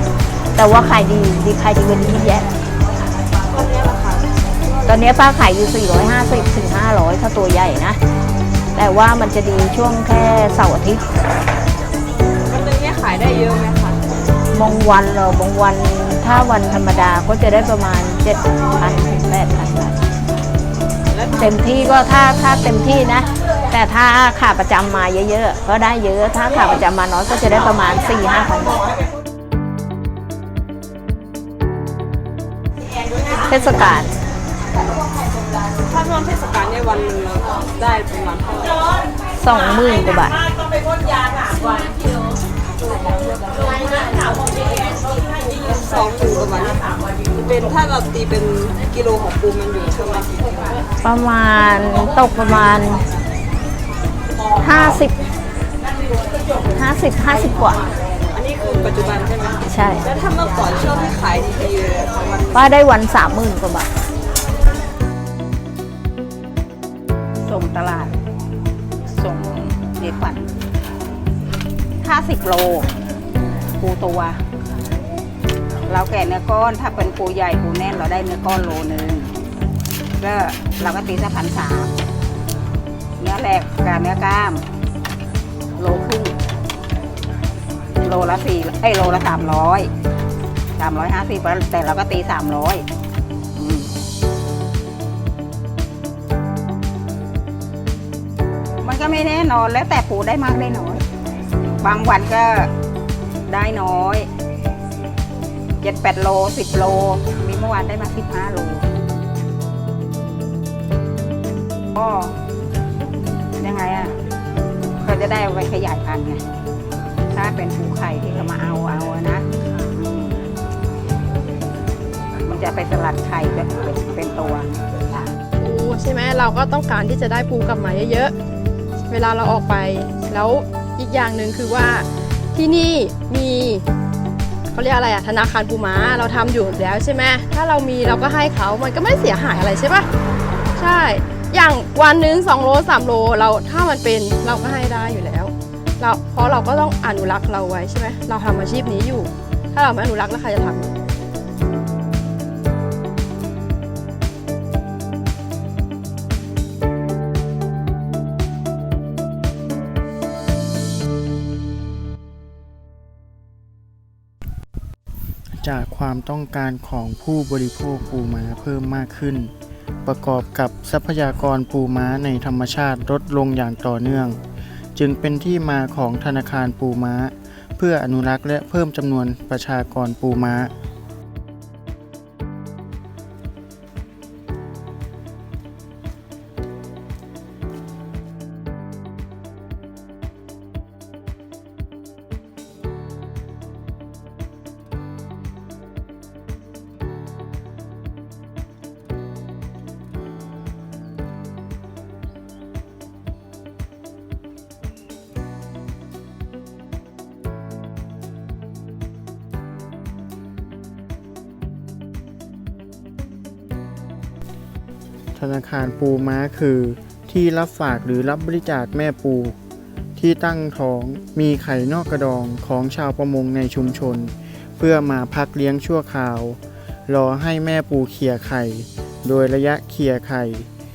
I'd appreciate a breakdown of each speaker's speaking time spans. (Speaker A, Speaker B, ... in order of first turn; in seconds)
Speaker A: 0.6-2.5, 4.9-8.0, 8.7-11.0, 14.5-19.9, 21.4-28.8, 33.5-34.1, 39.4-40.4, 51.0-53.0, 54.6-55.2, 56.7-57.8, 59.7-60.0, 62.5-63.9
Speaker B: 3.5-4.3, 12.5-14.0, 21.1-21.4, 35.9-38.9, 45.3-50.8, 58.3-62.5
Speaker C: 67.5-68.1, 69.1-70.5, 72.0-72.9, 73.7-74.4, 75.9-79.3, 80.2-81.9, 83.2-84.6, 85.8-86.3, 88.0-89.9, 90.8-92.8, 93.5-93.9, 98.8-101.0, 101.8-102.7, 103.5-104.3, 105.8-108.8, 111.9-112.3, 113.6-114.1, 115.0-116.4, 117.3-120.5, 122.4-124.8
Speaker D: 125.6-128.3, 129.1-133.8, 134.7-140.1, 140.8-150.9
Speaker E: 165.6-169.5, 170.0-174.4, 174.9-180.7, 215.3-219.6, 220.2-230.7